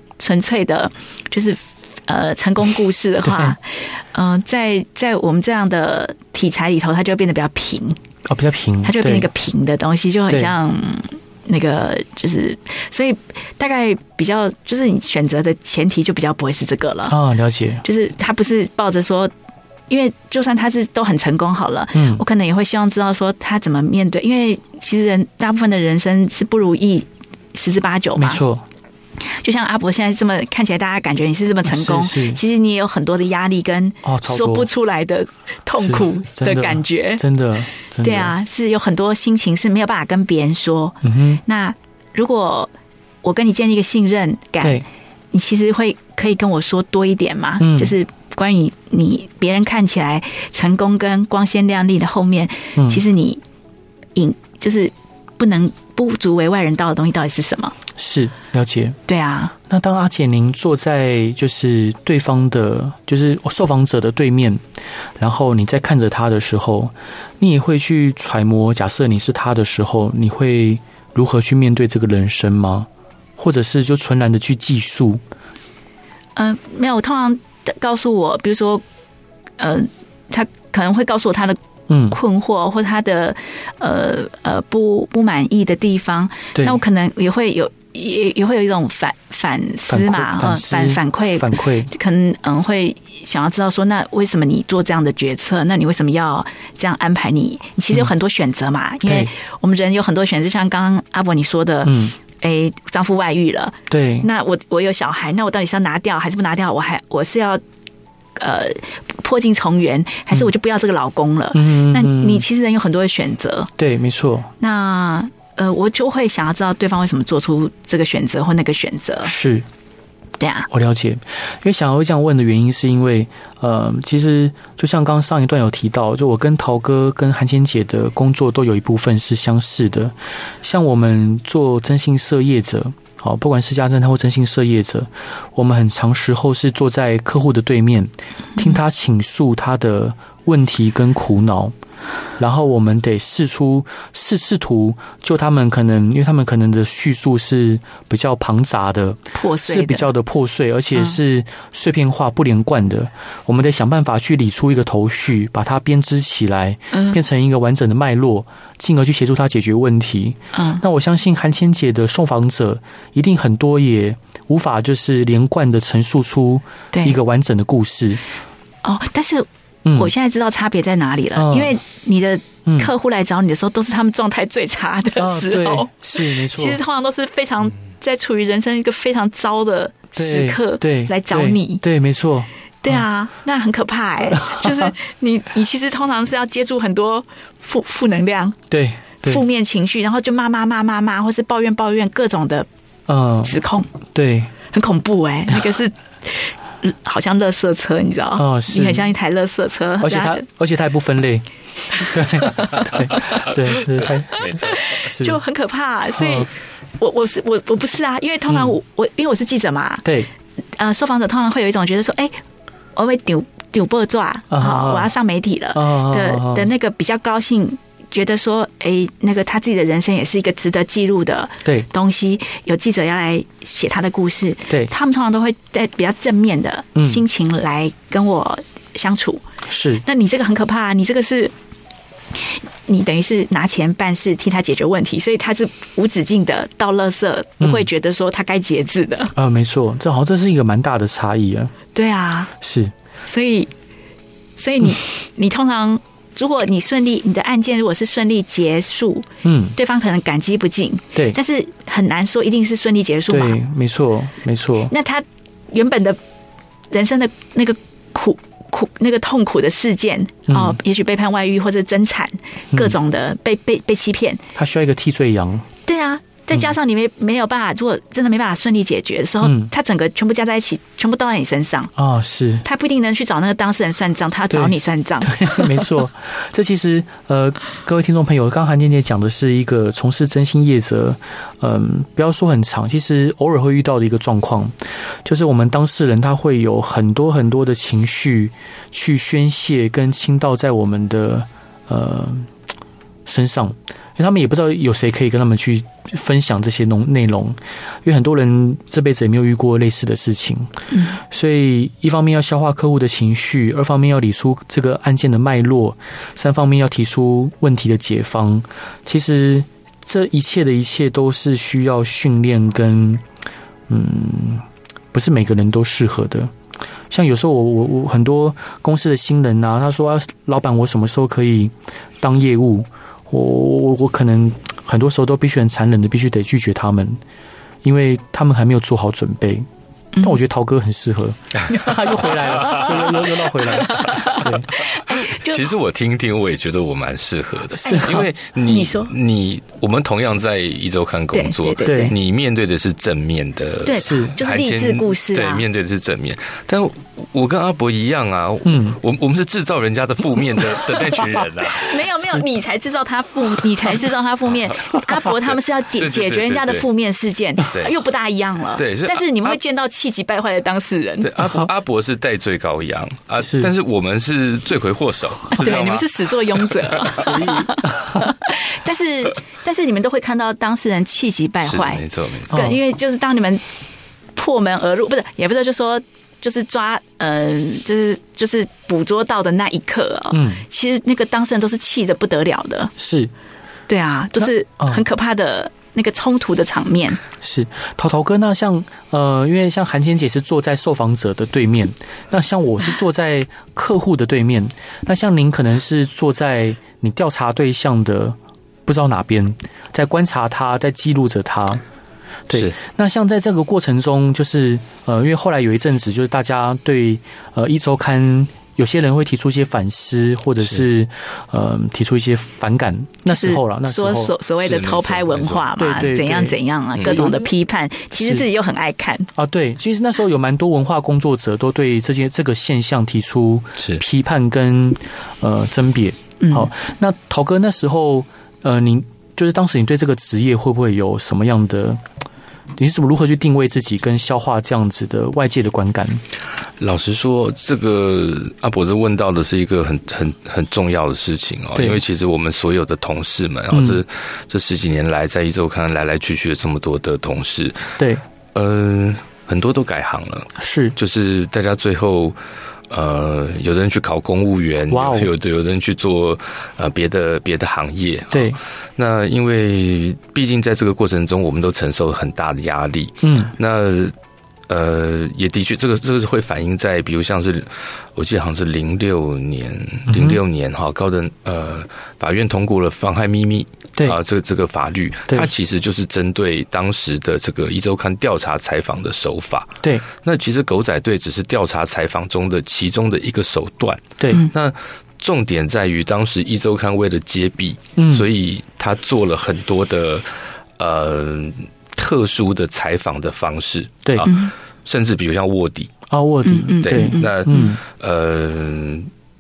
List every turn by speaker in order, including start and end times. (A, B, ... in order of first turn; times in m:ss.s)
0:00.2-0:08.0 A
0:03.2-0:03.6 B
0:08.3-0:09.3 B
0:08.8-0:17.2 A
0:17.1-0:17.8 B
0:17.8-0:19.3 A
0:19.9-0:28.4 A
0:21.9-0:22.2 B
0:28.2-0:28.6 B
0:29.2-0:37.2 A
0:31.6-0:32.4 B
0:34.0-0:34.7 B
0:35.8-0:38.4 B
0:38.0-0:42.7 A
0:41.0-0:41.4 B
0:43.2-0:53.4 A
0:47.6-0:47.9 B
0:52.8-0:53.0 B
0:54.2-0:57.8 A
0:58.0-0:59.0 B
0:59.1-0:59.5 A
0:59.7-1:04.6 B
1:05.2-1:15.2 B
1:16.4-1:18.8 A
1:19.6-1:21.6 A
1:21.9-1:22.2 B
1:22.1-1:47.6 A
1:29.9-1:31.9 B
1:39.1-1:39.3 B
1:41.8-1:42.2 B
1:43.9-1:44.3 B
1:48.4-1:53.7 A
1:51.5-1:52.4 B
1:53.8-1:54.5 B
1:54.6-1:59.3 A
1:59.2-1:59.7 B
2:00.4-2:00.7 A
2:00.7-2:21.7 B
2:22.4-2:48.2 B
2:29.3-2:30.1 A
2:36.9-2:37.2 A
2:40.5-2:40.8 A
2:48.8-3:01.8 A
2:49.8-2:50.1 B
2:51.4-2:51.8 B
2:52.7-2:52.9 B
2:55.2-2:56.8 B
3:00.2-3:03.0 B
3:02.8-3:08.6 A
3:04.4-3:04.9 B
3:08.7-3:09.4 B
3:09.2-3:12.7 A
3:13.1-3:13.6 B
3:13.4-3:13.9 A
3:14.1-3:14.5 B
3:14.7-3:20.4 A
3:18.4-3:19.1 B
3:20.0-3:25.4 B
3:22.4-3:22.9 A
3:24.4-3:24.8 C
3:24.5-3:30.0 A
3:26.2-3:26.5 B
3:30.8-3:32.3 A
3:33.0-3:49.4 A
3:34.5-3:35.1 B
3:35.7-3:36.7 B
3:47.0-3:47.2 B
3:49.7-3:50.0 B
3:50.0-3:51.5 A
3:52.4-3:59.3 A
3:57.6-3:57.9 B
3:59.4-4:01.7 B
4:02.0-4:02.5 A
4:02.6-4:02.9 B
4:03.2-4:03.7 A
4:04.6-4:13.6 A
4:09.4-4:09.8 B
4:13.3-4:14.9 B
4:14.9-4:16.2 A
4:16.9-4:24.4 A
4:20.5-4:20.8 B
4:24.6-4:25.7 B
4:25.9-4:31.9 A
4:29.4-4:29.7 B
4:32.0-4:32.6 B
4:32.6-4:35.9 A
4:34.5-4:44.7 B
4:45.2-4:52.5 B
4:53.3-5:00.7 B
5:00.9-5:01.2 A
5:01.2-5:13.2 B
5:13.9-5:16.5 B
5:17.1-5:27.2 B
5:27.8-5:29.7 B
5:30.2-5:34.7 B
5:31.7-5:35.6 A
5:35.1-5:52.1 C
5:37.8-5:38.2 B
5:37.8-5:39.1 A
5:41.3-5:42.2 A
5:41.8-5:42.1 B
5:43.8-5:45.7 A
5:44.0-5:44.4 B
5:48.6-5:49.0 B
5:51.7-6:01.5 A
5:56.0-5:56.9 C
5:58.8-5:59.6 C
6:01.2-6:07.5 C
6:03.4-6:03.7 B
6:05.5-6:13.6 A
6:07.2-6:08.3 B
6:11.6-6:12.6 C
6:12.5-6:12.8 B
6:14.4-6:22.9 A
6:20.3-6:20.6 B
6:23.0-6:23.3 B
6:23.9-6:27.2 A
6:24.4-6:25.0 B
6:27.4-6:41.8 B
6:42.5-6:54.3 B
6:53.3-6:59.3 A
6:54.6-6:55.7 C
6:55.8-6:56.6 B
6:57.1-6:57.4 B
6:58.2-6:58.4 B
6:59.4-7:12.0 B
7:06.4-7:06.7 A
7:12.8-7:16.2 B
7:16.8-7:27.9 C
7:21.8-7:22.0 B
7:23.7-7:24.0 B
7:28.6-7:32.4 C
7:30.6-7:31.0 B
7:32.9-7:44.1 C
7:34.9-7:35.3 B
7:38.3-7:38.6 B
7:43.2-7:43.5 B
7:44.7-8:15.9 C
7:50.1-7:50.4 B
8:04.2-8:04.5 B
8:08.0-8:08.3 B
8:14.2-8:14.5 A
8:16.1-8:17.8 B
8:16.4-8:17.8 A
8:16.8-8:19.1 C